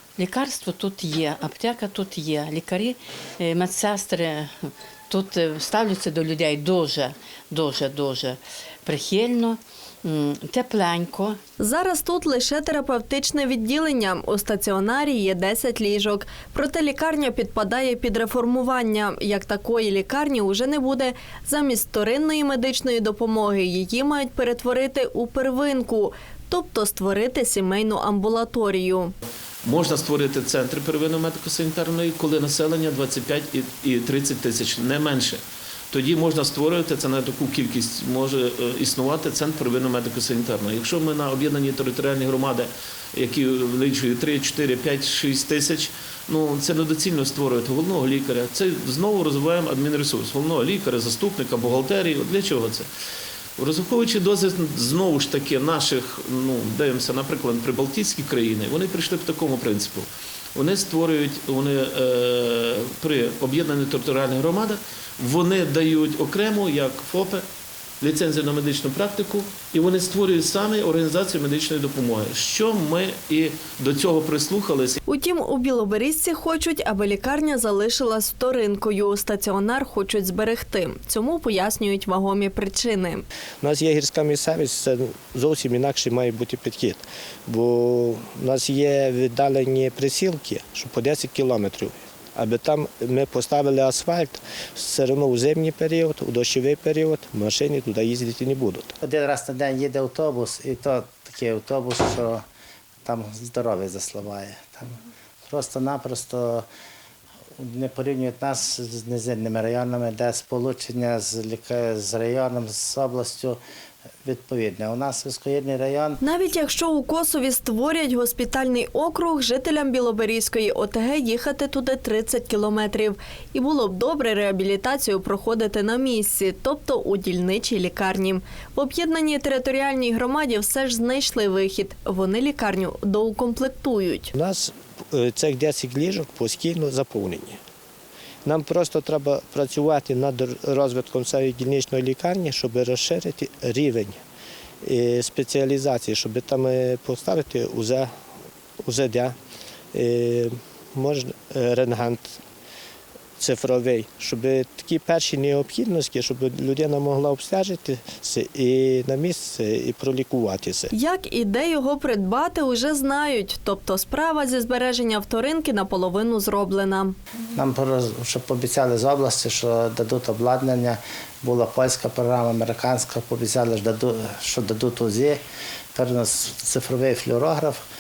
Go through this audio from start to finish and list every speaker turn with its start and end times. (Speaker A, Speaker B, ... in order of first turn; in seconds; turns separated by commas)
Speaker A: 0.2-11.4, Speaker B: 11.6-29.1, Speaker C: 29.6-52.9, Speaker C: 53.6-67.4, Speaker C: 68.0-75.0, Speaker B: 75.0-83.2, Speaker D: 83.6-98.9, Speaker E: 99.0-102.4, Speaker E: 103.0-104.9, Speaker E: 105.5-106.7, Speaker E: 107.6-113.6, Speaker E: 114.2-116.2, Speaker B: 116.2-134.3, Speaker D: 134.3-137.6, Speaker D: 138.4-144.2, Speaker D: 144.8-148.1, Speaker D: 148.8-149.3, Speaker D: 149.9-152.4, Speaker D: 153.4-160.9, Speaker B: 160.9-167.2, Speaker E: 167.6-175.4, Speaker E: 175.9-177.8